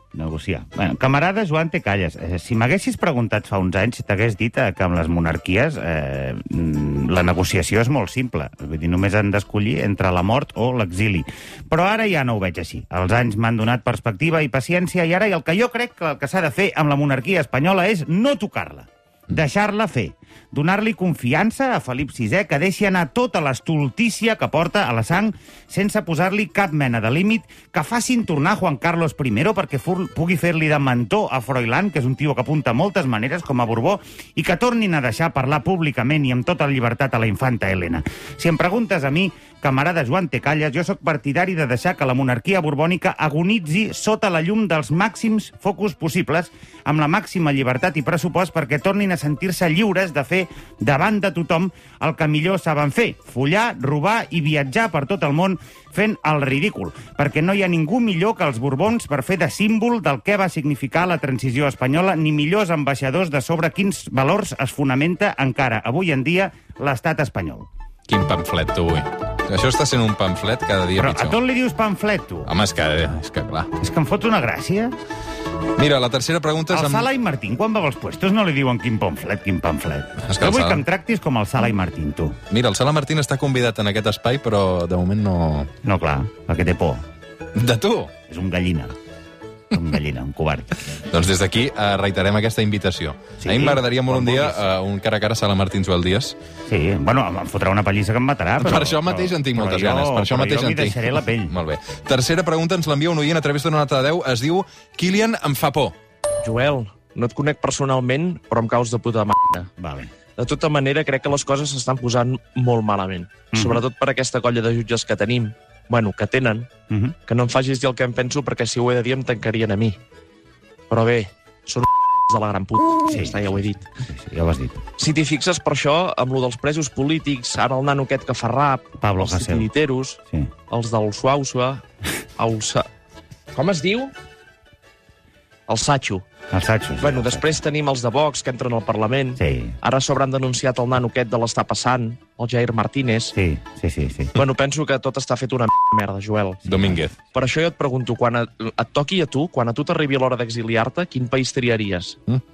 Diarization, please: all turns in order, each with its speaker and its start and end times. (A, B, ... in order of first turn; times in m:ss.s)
0:00.1-1:07.7 A
1:08.1-1:11.4 B
1:11.0-1:12.5 A
1:12.4-1:13.7 B
1:13.8-1:14.9 A
1:15.8-1:17.1 B
1:16.7-1:22.4 A
1:20.2-1:20.8 B
1:22.5-1:25.7 B
1:25.8-1:27.0 A
1:27.5-1:28.1 B
1:28.3-1:28.9 A
1:29.7-1:31.0 A
1:31.1-1:36.4 B
1:33.4-1:34.6 A
1:36.7-1:41.6 A
1:38.6-1:45.9 B
1:46.4-1:49.7 C
1:49.8-1:50.1 A
1:50.4-1:56.7 C
1:53.5-1:53.8 A
1:56.9-1:57.1 A
1:57.3-2:00.0 C
2:00.9-2:03.8 C
2:03.1-2:04.8 A
2:05.0-2:10.2 C
2:09.0-2:09.7 A
2:10.7-2:11.8 C
2:12.4-2:12.9 C
2:13.5-2:14.1 C
2:15.7-2:16.2 C
2:16.5-2:17.6 A
2:17.0-2:23.4 C
2:19.4-2:19.8 A
2:23.4-2:24.3 A
2:24.4-2:26.6 C
2:26.6-2:27.0 A
2:26.7-2:27.1 B
2:27.3-2:32.2 C